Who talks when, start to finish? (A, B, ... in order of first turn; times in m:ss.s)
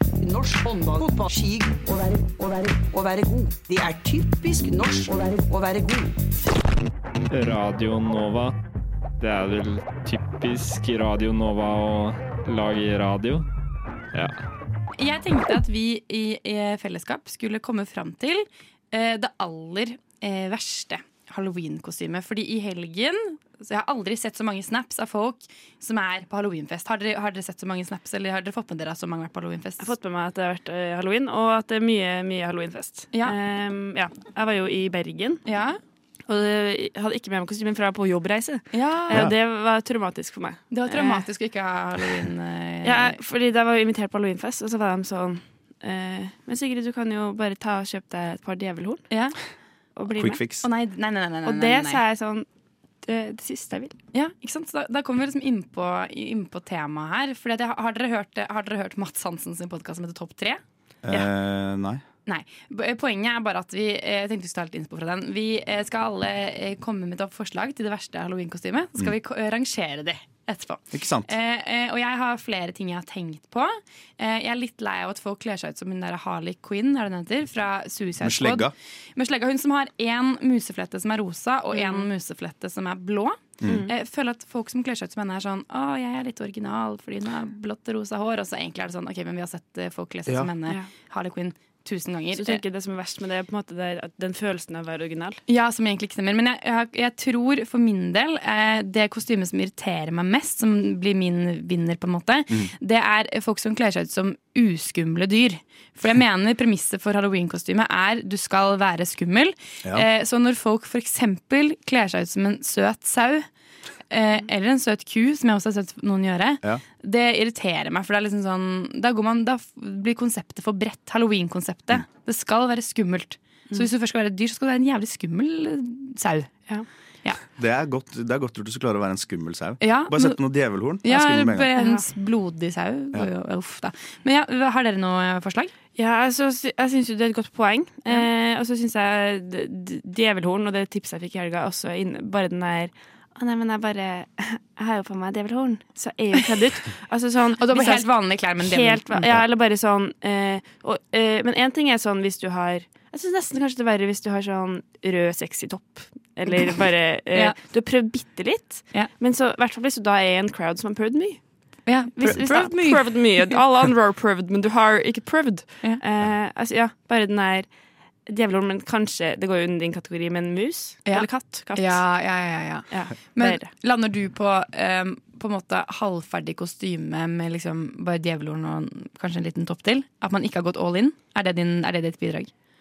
0:00.2-0:06.1 A
0:07.3-0:08.5 B
0:09.2-0:13.4 B
0:14.1-0:14.4 B
0:15.0-0:29.9 C
0:29.8-0:35.4 D
0:33.1-0:33.4 C
0:35.4-0:35.8 C
0:36.2-0:41.3 D
0:40.7-0:43.2 C
0:42.8-0:49.3 D
0:49.1-0:49.4 C
0:50.0-0:50.4 D
0:50.1-0:50.6 E
0:50.6-0:52.0 C
0:51.4-0:52.5 D
0:53.0-0:54.0 D
0:54.1-1:01.3 C
1:01.0-1:02.0 E
1:02.2-1:32.6 C
1:10.9-1:11.3 E
1:18.2-1:18.7 E
1:21.7-1:22.1 D
1:23.6-1:23.9 E
1:23.6-1:23.9 D
1:30.3-1:30.5 E
1:32.3-1:35.4 D
1:35.5-1:53.5 C
1:54.1-2:07.4 C
2:07.5-2:11.7 E
2:09.8-2:10.4 C
2:11.0-2:15.7 C
2:11.7-2:12.1 D
2:15.9-2:52.1 D
2:27.6-2:29.4 C
2:41.8-2:43.2 C
2:51.0-3:02.5 C
2:52.9-2:53.7 D